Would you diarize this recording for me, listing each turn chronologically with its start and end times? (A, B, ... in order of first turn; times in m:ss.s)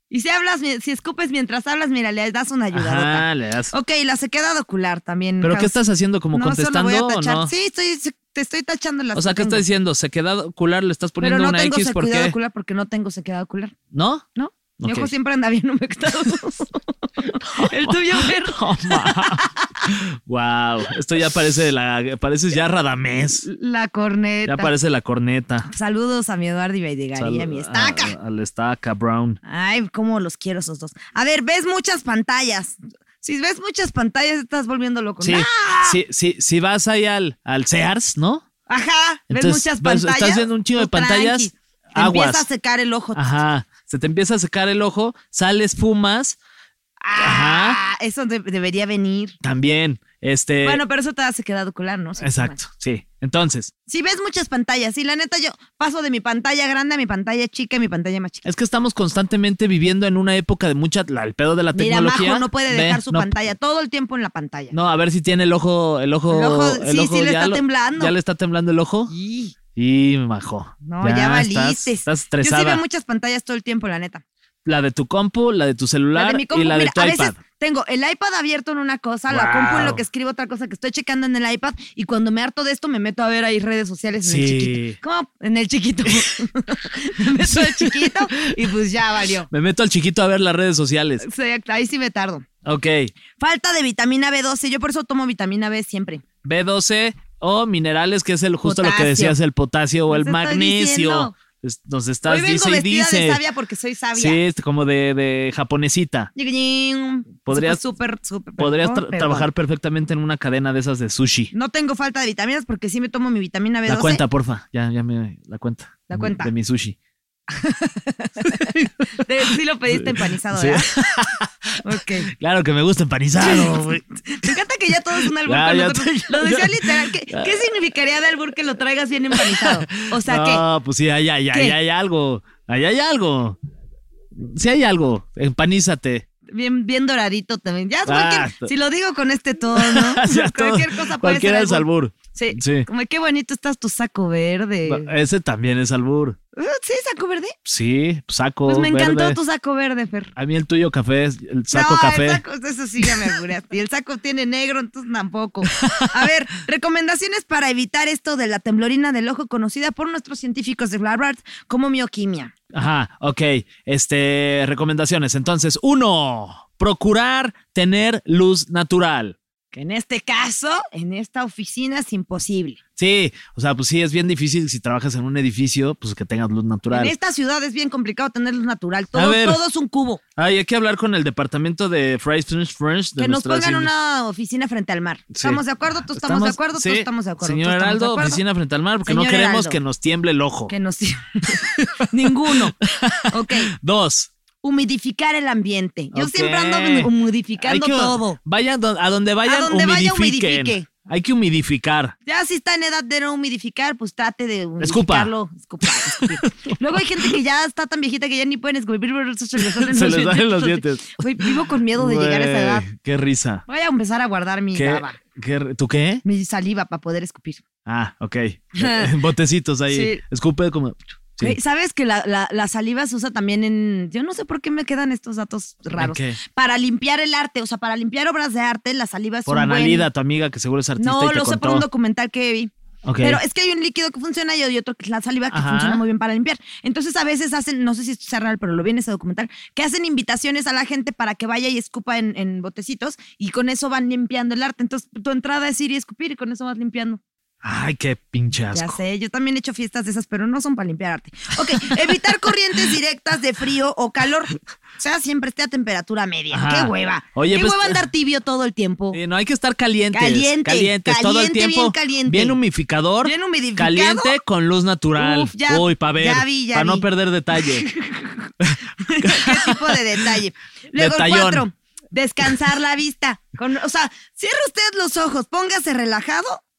0:00.1-0:05.8 A
0:02.7-0:03.7 B
0:05.4-0:07.5 B
0:06.3-0:09.6 A
0:09.1-0:12.3 B
0:11.2-0:13.7 A
0:13.9-0:14.2 B
0:14.4-0:19.8 A
0:14.8-0:15.1 B
0:17.5-0:23.4 B
0:23.4-0:24.7 A
0:24.4-0:25.7 B
0:25.6-0:28.1 A
0:27.2-0:29.4 B
0:29.4-0:36.0 A
0:35.2-0:38.4 B
0:38.7-0:43.2 A
0:39.3-0:42.4 B
0:43.1-0:46.4 B
0:47.0-0:49.4 A
0:47.2-0:47.8 B
0:49.4-0:50.8 B
0:50.6-0:52.6 A
0:52.2-0:53.7 B
0:53.9-0:58.5 A
0:58.4-1:03.5 B
1:01.7-1:04.7 A
1:04.7-1:09.1 B
1:06.3-1:08.1 A
1:09.1-1:09.5 A
1:09.7-1:12.8 B
1:10.8-1:14.2 A
1:14.6-1:17.4 B
1:16.1-1:29.5 A
1:19.3-1:20.0 B
1:24.2-1:25.0 B
1:27.4-1:28.4 B
1:29.5-1:31.2 B
1:31.2-1:32.4 A
1:32.6-1:33.1 B
1:33.4-1:36.2 A
1:36.4-1:43.4 B
1:38.6-1:39.4 A
1:40.1-1:41.3 A
1:42.3-1:44.4 A
1:44.1-1:46.3 B
1:46.3-1:49.5 A
1:47.4-1:47.8 B
1:48.6-1:51.5 B
1:51.5-1:54.2 A
1:53.9-1:57.0 B
1:56.1-1:56.5 A
1:57.5-2:00.9 A
1:58.5-1:58.9 B
1:59.9-2:04.6 B
2:01.8-2:02.3 A
2:03.4-2:10.6 A
2:05.2-2:07.6 B
2:09.3-2:13.6 B
2:14.3-2:16.2 B
2:16.5-2:25.1 A
2:18.0-2:18.7 B
2:19.8-2:22.9 B
2:24.8-2:26.4 B
2:26.6-2:27.5 A
2:27.6-2:29.4 B
2:28.6-2:30.3 A
2:30.4-2:32.4 B
2:31.7-2:42.5 A
2:35.8-2:36.2 B
2:42.7-2:49.4 B
2:49.7-2:52.8 A
2:53.0-2:57.1 B
2:56.9-3:00.2 A
2:59.1-2:59.6 B
3:00.4-3:03.9 B
3:03.2-3:08.4 A
3:05.3-3:05.6 B
3:06.1-3:10.7 B
3:09.0-3:09.8 A
3:10.7-3:12.8 A
3:12.5-3:14.3 B
3:13.3-3:13.7 A
3:14.6-3:18.4 A
3:16.1-3:22.1 B
3:19.4-3:20.9 A
3:22.2-3:32.9 A
3:24.8-3:25.3 B
3:25.8-3:27.4 B
3:29.6-3:33.6 B
3:33.7-3:35.2 A
3:34.7-3:36.2 B
3:36.2-3:37.6 A
3:37.8-3:41.6 B
3:38.8-3:39.1 A
3:39.9-3:40.2 A
3:41.4-3:50.1 A
3:46.0-3:46.4 B
3:49.4-3:51.8 B
3:51.0-4:07.2 A
3:53.0-3:53.4 B
3:55.5-3:56.0 B
4:07.6-4:09.0 B
4:08.7-4:19.2 A
4:16.5-4:18.0 B
4:19.1-4:27.9 B
4:20.1-4:22.6 A
4:23.2-4:24.3 A
4:25.2-4:27.0 A
4:27.6-4:28.5 A
4:28.6-4:30.2 B
4:29.0-4:36.6 A
4:30.9-4:31.6 B